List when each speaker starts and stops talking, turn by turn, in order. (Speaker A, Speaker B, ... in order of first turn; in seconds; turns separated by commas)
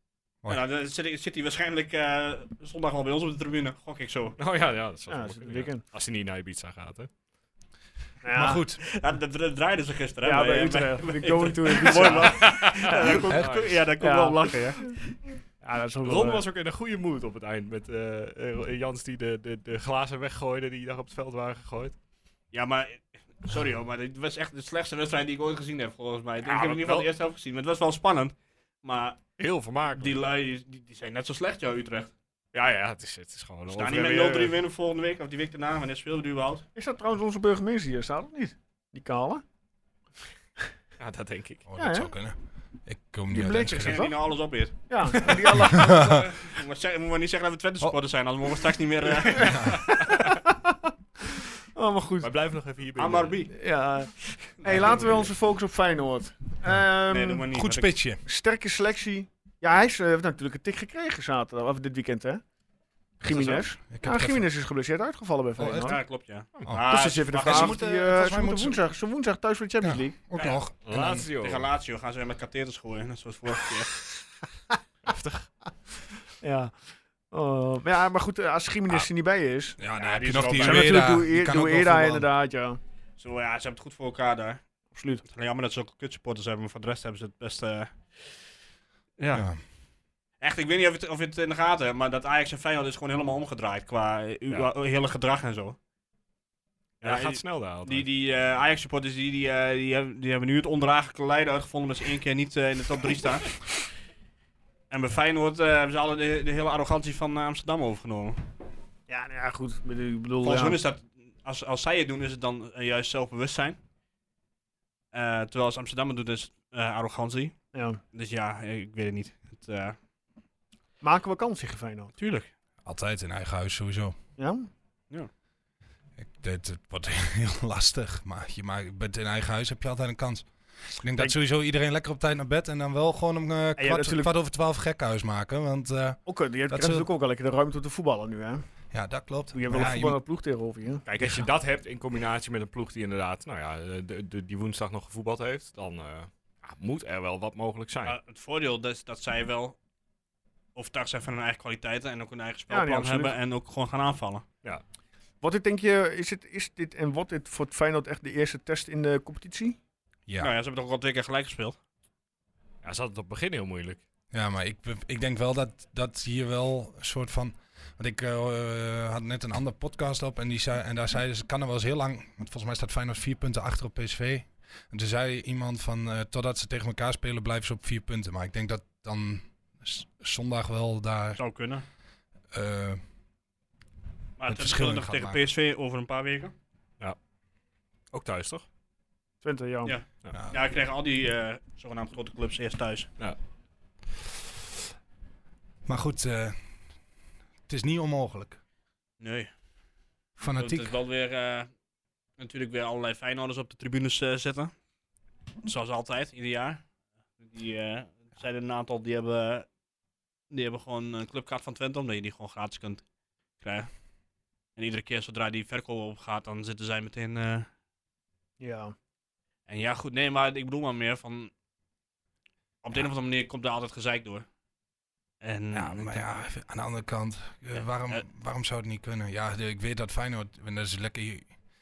Speaker A: 0.5-4.4, Speaker B: 4.4-7.1, Speaker C: 5.1-5.8, Speaker C: 8.2-8.6, Speaker D: 8.3-8.8, Speaker A: 8.8-15.2, Speaker C: 10.2-12.9, Speaker B: 12.2-13.7, Speaker D: 13.3-13.6, Speaker C: 14.0-15.0, Speaker C: 15.6-16.4, Speaker B: 16.0-22.0, Speaker A: 22.5-29.2, Speaker B: 26.4-27.1, Speaker B: 29.4-30.1, Speaker A: 30.0-32.1, Speaker B: 32.5-34.6, Speaker A: 33.7-36.7, Speaker C: 36.8-39.4, Speaker B: 41.0-41.6, Speaker D: 41.7-44.0, Speaker C: 41.8-42.1, Speaker C: 43.3-44.2, Speaker A: 43.7-50.0, Speaker C: 44.8-45.9, Speaker D: 45.6-46.2, Speaker C: 49.3-50.9, Speaker D: 49.4-49.8, Speaker C: 51.7-52.3, Speaker B: 52.2-53.4, Speaker A: 53.0-53.6, Speaker C: 53.5-57.5, Speaker A: 54.3-55.0, Speaker B: 54.7-55.3, Speaker A: 57.1-57.9, Speaker D: 57.5-58.2, Speaker C: 58.2-62.4, Speaker C: 63.2-66.0, Speaker D: 63.9-64.5, Speaker D: 65.6-65.9, Speaker A: 65.8-67.8, Speaker D: 66.7-68.8, Speaker C: 66.7-70.2, Speaker D: 69.8-71.3, Speaker A: 70.3-70.7, Speaker B: 70.8-71.7, Speaker A: 71.3-74.0, Speaker B: 75.1-75.5, Speaker C: 76.4-76.7, Speaker C: 77.3-79.8, Speaker D: 79.8-82.3, Speaker A: 80.0-81.1, Speaker C: 80.5-82.8, Speaker A: 83.2-84.6, Speaker C: 84.9-85.2, Speaker A: 85.2-88.3, Speaker A: 89.2-89.5, Speaker D: 89.3-89.6, Speaker A: 90.4-95.8, Speaker B: 97.0-98.1, Speaker A: 97.0-103.7, Speaker A: 104.9-108.4, Speaker C: 109.1-110.8, Speaker A: 110.4-113.8, Speaker A: 115.1-117.6, Speaker C: 117.7-118.0, Speaker A: 118.1-120.0, Speaker C: 121.0-122.1, Speaker A: 122.2-122.5, Speaker D: 122.8-124.2, Speaker C: 124.4-124.7, Speaker D: 126.2-137.1, Speaker C: 133.8-134.3, Speaker C: 136.3-138.7, Speaker D: 138.9-140.2, Speaker C: 139.5-141.1, Speaker B: 141.1-148.2, Speaker D: 141.2-141.5, Speaker A: 148.0-149.8, Speaker A: 150.8-154.4, Speaker C: 152.7-153.3, Speaker C: 155.4-159.8, Speaker D: 160.3-160.5, Speaker A: 160.4-161.8, Speaker B: 162.8-164.0, Speaker D: 164.3-181.4, Speaker A: 181.4-181.8, Speaker D: 182.5-183.0, Speaker A: 184.4-186.5, Speaker D: 184.5-185.4, Speaker B: 188.1-188.7, Speaker C: 189.4-190.0, Speaker A: 189.8-193.1, Speaker D: 190.3-190.6, Speaker D: 195.9-196.6, Speaker D: 197.7-198.6, Speaker A: 199.2-199.5, Speaker D: 200.4-200.9, Speaker A: 200.5-201.7, Speaker A: 202.4-204.7, Speaker A: 205.6-206.8, Speaker A: 207.4-209.7, Speaker A: 210.5-213.0, Speaker A: 213.6-213.9, Speaker A: 214.8-217.7, Speaker C: 218.6-218.9, Speaker A: 219.7-221.5, Speaker A: 222.8-224.4, Speaker A: 225.4-226.2, Speaker D: 225.7-231.5, Speaker A: 227.8-228.2